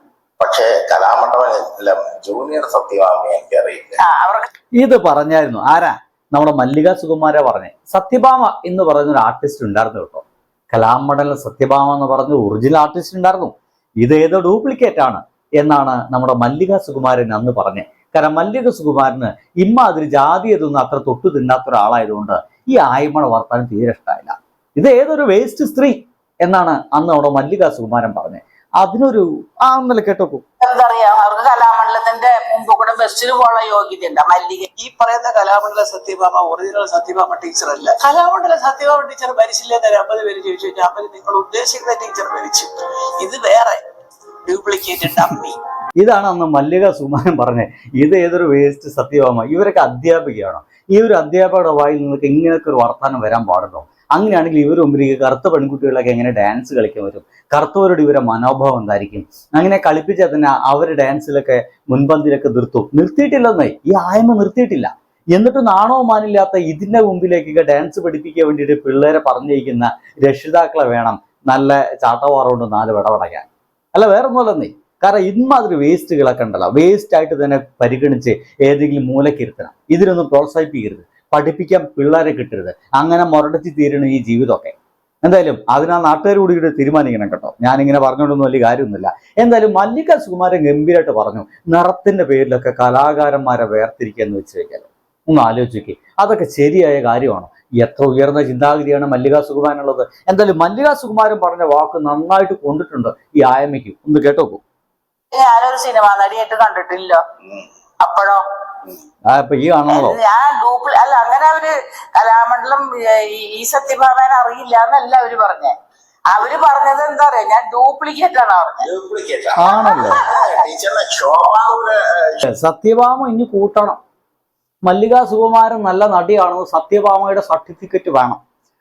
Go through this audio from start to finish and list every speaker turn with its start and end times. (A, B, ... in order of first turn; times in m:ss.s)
0:00.4-0:04.0 A
0:04.0-0:04.5 B
0:04.8-0:30.4 C
0:30.6-0:34.7 B
0:34.8-0:43.8 D
0:44.5-0:45.6 D
0:46.0-1:44.6 C
1:45.3-1:47.2 B
1:48.0-1:48.4 B
1:49.3-1:50.2 C
1:49.9-1:55.7 B
1:56.3-1:58.8 B
1:58.8-2:02.4 A
1:59.6-2:00.2 C
2:02.5-2:04.0 C
2:04.8-2:08.4 C